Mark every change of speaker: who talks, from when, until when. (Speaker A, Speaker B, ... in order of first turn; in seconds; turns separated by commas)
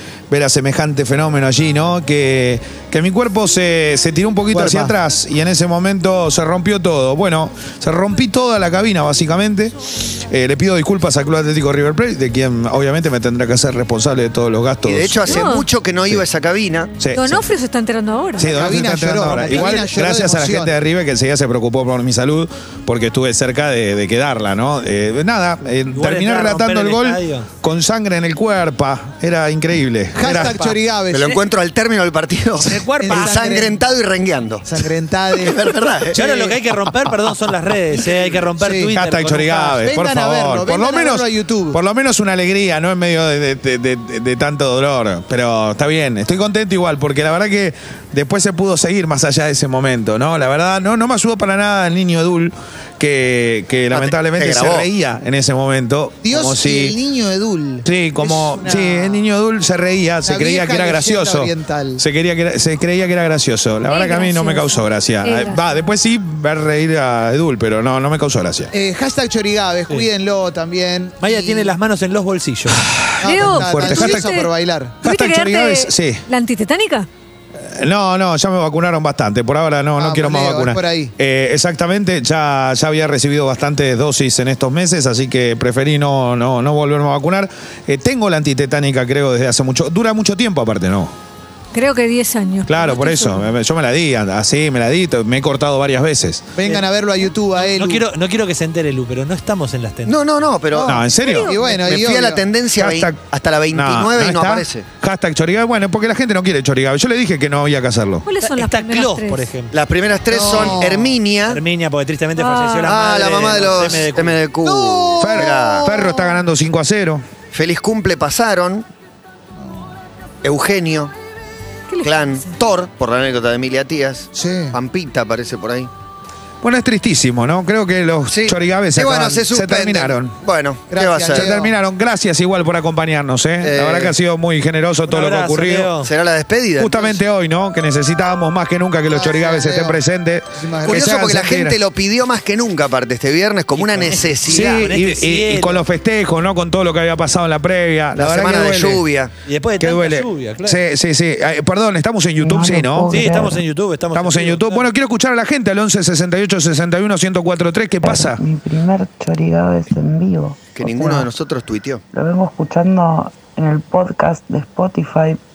Speaker A: 0.3-15.5, Speaker B: 4.5-4.9, Speaker C: 14.8-17.0, Speaker D: 15.2-15.7, Speaker A: 17.0-17.4, Speaker D: 17.1-18.6, Speaker A: 18.4-30.6, Speaker B: 18.4-20.8, Speaker E: 25.9-27.5, Speaker B: 30.1-31.4, Speaker E: 30.2-30.8, Speaker C: 31.1-34.7, Speaker E: 32.6-33.5, Speaker B: 33.0-33.8, Speaker B: 34.6-35.6, Speaker C: 35.3-36.6, Speaker E: 36.1-39.7, Speaker B: 38.6-38.9, Speaker A: 38.9-56.9, Speaker B: 39.5-41.8, Speaker C: 53.9-54.9, Speaker B: 56.2-59.2, Speaker A: 57.8-68.7, Speaker B: 60.2-62.0, Speaker D: 63.9-65.6, Speaker B: 68.7-71.7, Speaker E: 71.2-72.9, Speaker A: 72.7-74.3, Speaker B: 73.2-75.0, Speaker D: 73.2-74.5, Speaker A: 75.0-76.2, Speaker D: 75.0-77.1, Speaker A: 77.6-91.1, Speaker B: 80.0-81.1, Speaker D: 91.7-93.5, Speaker A: 92.7-96.5, Speaker B: 96.5-98.0, Speaker E: 97.7-100.2, Speaker C: 100.0-101.0, Speaker B: 100.7-102.4, Speaker A: 100.9-101.5, Speaker D: 101.1-101.7, Speaker C: 101.7-104.8, Speaker A: 102.8-103.2, Speaker A: 103.7-108.2, Speaker D: 108.2-109.5, Speaker E: 108.4-109.7, Speaker C: 109.7-111.6, Speaker B: 110.3-111.1, Speaker E: 111.5-114.4, Speaker D: 112.4-112.9, Speaker C: 112.9-115.8, Speaker B: 114.6-116.3, Speaker A: 115.2-117.2, Speaker C: 117.5-118.9, Speaker C: 120.4-121.1, Speaker D: 121.9-122.5, Speaker C: 122.0-125.9, Speaker B: 124.3-124.8, Speaker A: 126.6-130.4, Speaker C: 128.3-131.6, Speaker B: 130.9-131.7, Speaker A: 131.3-135.9, Speaker C: 133.6-134.1, Speaker E: 135.1-136.1, Speaker C: 136.0-137.2, Speaker A: 136.8-141.8, Speaker B: 139.1-140.0, Speaker B: 140.5-141.0, Speaker C: 140.8-144.9, Speaker E: 143.7-145.8, Speaker A: 144.4-149.0, Speaker C: 148.1-149.3, Speaker E: 149.4-150.8, Speaker A: 149.8-153.5, Speaker F: 152.4-153.6, Speaker E: 153.1-154.9, Speaker A: 154.1-158.4, Speaker F: 158.0-161.2, Speaker C: 160.7-162.0, Speaker F: 162.1-165.4